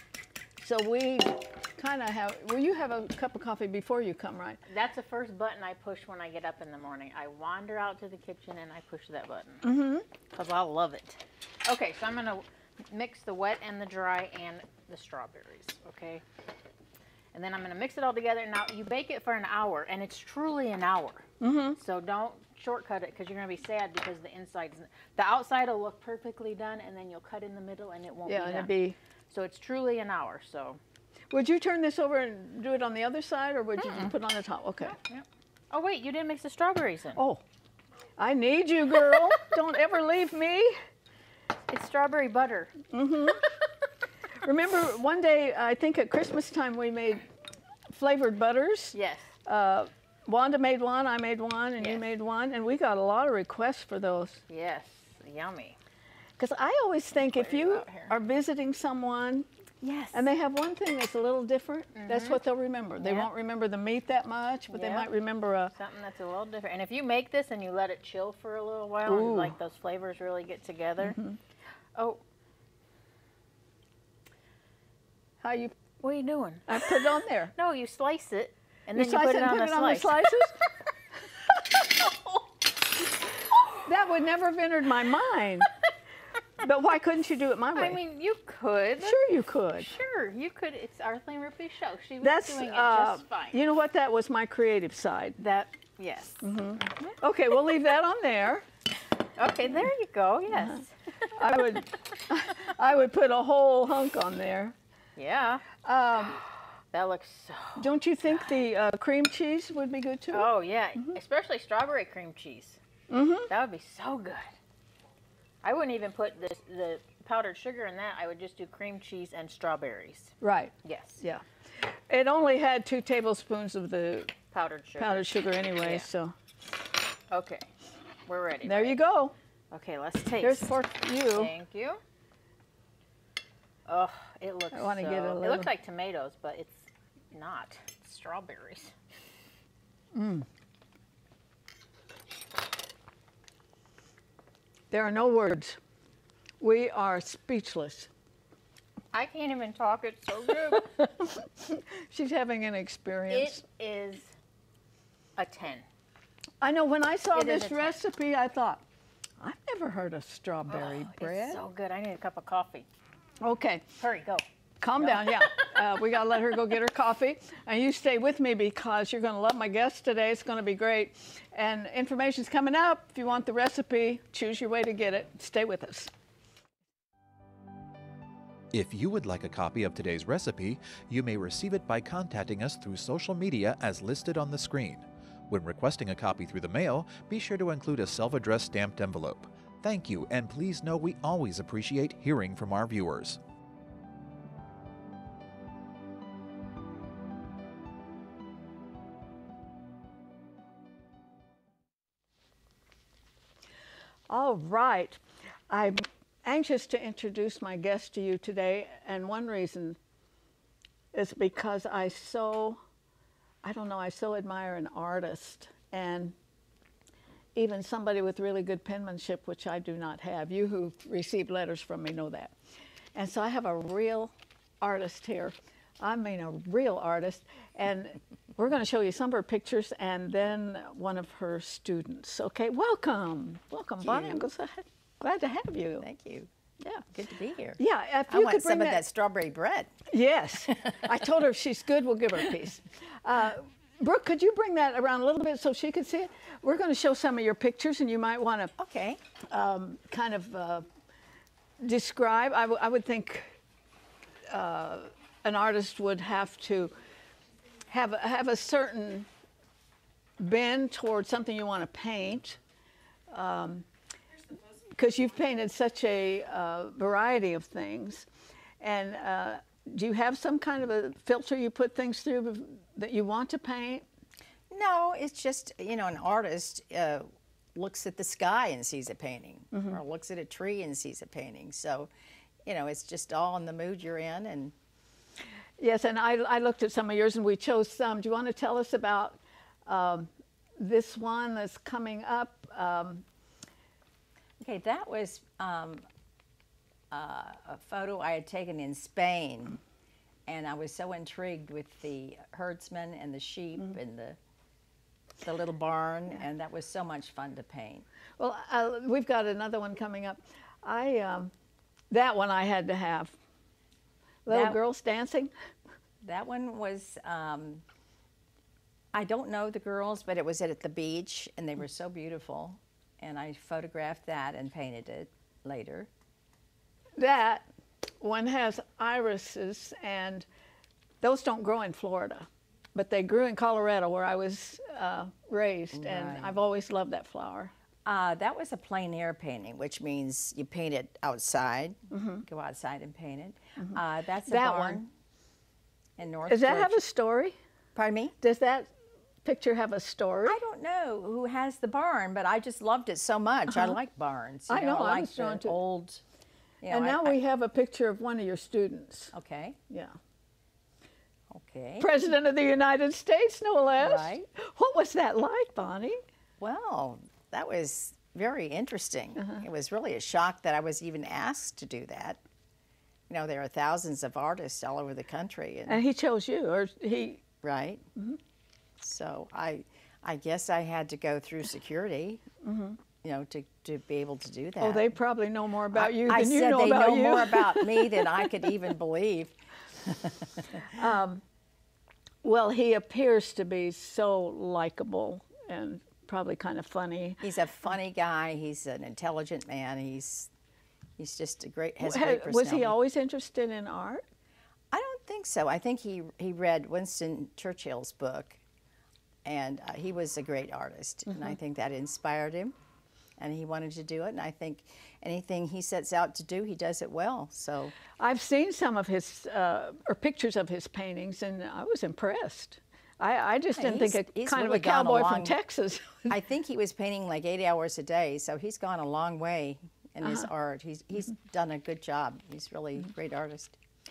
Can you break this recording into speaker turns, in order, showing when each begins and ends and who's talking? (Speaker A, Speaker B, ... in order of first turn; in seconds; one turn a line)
Speaker A: 0.6-4.6
Speaker B: 4.7-9.7
Speaker A: 9.6-10.1
Speaker B: 10.3-16.2
Speaker B: 17.3-28.7
Speaker A: 21.4-21.8
Speaker A: 28.3-29.0
Speaker B: 29.3-30.8
Speaker A: 31.3-35.0
Speaker B: 33.8-34.1
Speaker B: 34.8-37.2
Speaker A: 37.2-37.4
Speaker A: 38.2-40.8
Speaker B: 41.7-42.8
Speaker A: 42.9-43.5
Speaker A: 44.4-47.3
Speaker A: 47.9-54.4
Speaker B: 48.9-49.3
Speaker B: 51.8-52.0
Speaker B: 54.5-55.8
Speaker A: 56.4-59.5
Speaker B: 57.3-58.1
Speaker C: 59.8-60.1
Speaker A: 60.1-65.7
Speaker B: 62.0-62.4
Speaker B: 63.0-63.3
Speaker B: 64.7-65.1
Speaker B: 65.8-71.2
Speaker A: 69.1-69.6
Speaker A: 71.0-71.4
Speaker B: 71.9-72.2
Speaker A: 75.4-75.7
Speaker B: 76.0-80.2
Speaker A: 76.7-77.5
Speaker A: 79.0-80.6
Speaker A: 83.8-85.7
Speaker A: 86.6-88.0
Speaker B: 87.8-89.2
Speaker A: 89.0-89.9
Speaker B: 89.8-93.6
Speaker A: 92.2-95.4
Speaker B: 95.4-96.5
Speaker A: 96.4-98.7
Speaker B: 99.4-101.8
Speaker A: 100.5-100.8
Speaker A: 101.3-104.8
Speaker B: 105.2-105.7
Speaker A: 105.8-106.4
Speaker B: 106.9-107.9
Speaker A: 107.8-110.5
Speaker B: 110.3-112.8
Speaker A: 113.1-113.5
Speaker B: 113.5-114.5
Speaker B: 115.6-121.2
Speaker A: 120.4-124.3
Speaker B: 124.5-126.1
Speaker A: 125.0-126.3
Speaker B: 127.3-127.7
Speaker B: 128.2-129.0
Speaker A: 128.7-129.3
Speaker B: 129.7-132.0
Speaker A: 130.4-131.5
Speaker B: 133.9-138.9
Speaker A: 134.7-135.7
Speaker A: 140.1-140.5
Speaker A: 144.9-145.8
Speaker A: 146.6-148.1
Speaker B: 149.1-150.9
Speaker A: 150.7-153.6
Speaker B: 153.3-154.3
Speaker B: 155.4-155.9
Speaker A: 156.6-158.8
Speaker B: 157.3-157.9
Speaker A: 159.4-161.6
Speaker B: 160.7-162.9
Speaker A: 163.4-163.8
Speaker B: 164.0-164.4
Speaker A: 164.8-176.1
Speaker B: 165.0-165.9
Speaker D: 178.7-193.4
Speaker A: 204.3-210.0
Speaker A: 211.1-212.8
Speaker A: 213.6-216.3
Speaker A: 217.6-222.5
Speaker A: 223.1-236.1
Speaker C: 234.0-234.5
Speaker C: 236.0-236.5
Speaker C: 237.1-239.9
Speaker A: 237.8-239.0
Speaker A: 240.1-248.7
Speaker C: 240.7-241.1
Speaker C: 248.8-249.2
Speaker A: 249.5-250.9
Speaker A: 251.8-253.5
Speaker A: 254.5-256.9
Speaker A: 257.9-259.3
Speaker A: 260.4-262.6
Speaker A: 263.3-263.9
Speaker A: 265.0-268.2
Speaker A: 268.8-274.1
Speaker C: 274.7-282.1
Speaker A: 279.7-280.0
Speaker C: 282.6-284.7
Speaker A: 285.8-293.2
Speaker C: 294.6-296.1
Speaker C: 297.1-299.8
Speaker C: 300.5-304.4
Speaker C: 305.4-308.1
Speaker A: 308.4-311.5
Speaker A: 312.1-313.4
Speaker A: 314.5-315.5
Speaker C: 314.5-314.8
Speaker C: 316.2-317.8
Speaker C: 319.1-326.1
Speaker A: 327.2-327.6
Speaker A: 328.2-330.5
Speaker A: 331.2-337.7
Speaker C: 335.9-336.6
Speaker C: 338.1-345.1
Speaker A: 342.1-342.4
Speaker A: 343.8-345.0
Speaker C: 346.2-347.0
Speaker A: 346.5-347.6
Speaker C: 347.9-348.4
Speaker A: 348.4-348.9
Speaker A: 349.4-350.6
Speaker C: 350.5-356.2
Speaker A: 353.7-354.0
Speaker A: 354.7-355.8
Speaker C: 356.8-357.4
Speaker A: 356.9-359.3
Speaker C: 359.3-359.8
Speaker A: 359.9-360.1
Speaker C: 361.5-362.1
Speaker A: 362.0-366.2
Speaker C: 364.0-364.4
Speaker C: 366.6-372.4
Speaker C: 373.3-376.0
Speaker A: 375.9-377.4
Speaker C: 377.6-378.0
Speaker C: 379.0-382.4
Speaker A: 382.6-383.0
Speaker C: 383.2-385.1
Speaker A: 384.8-388.5
Speaker C: 385.9-390.8
Speaker A: 390.9-391.4
Speaker A: 392.4-397.4
Speaker C: 397.4-400.5
Speaker C: 401.2-402.9
Speaker A: 402.0-404.2
Speaker C: 404.9-408.6
Speaker C: 409.4-412.7
Speaker C: 413.4-418.0
Speaker A: 418.2-426.4
Speaker C: 423.8-425.6
Speaker C: 426.3-433.8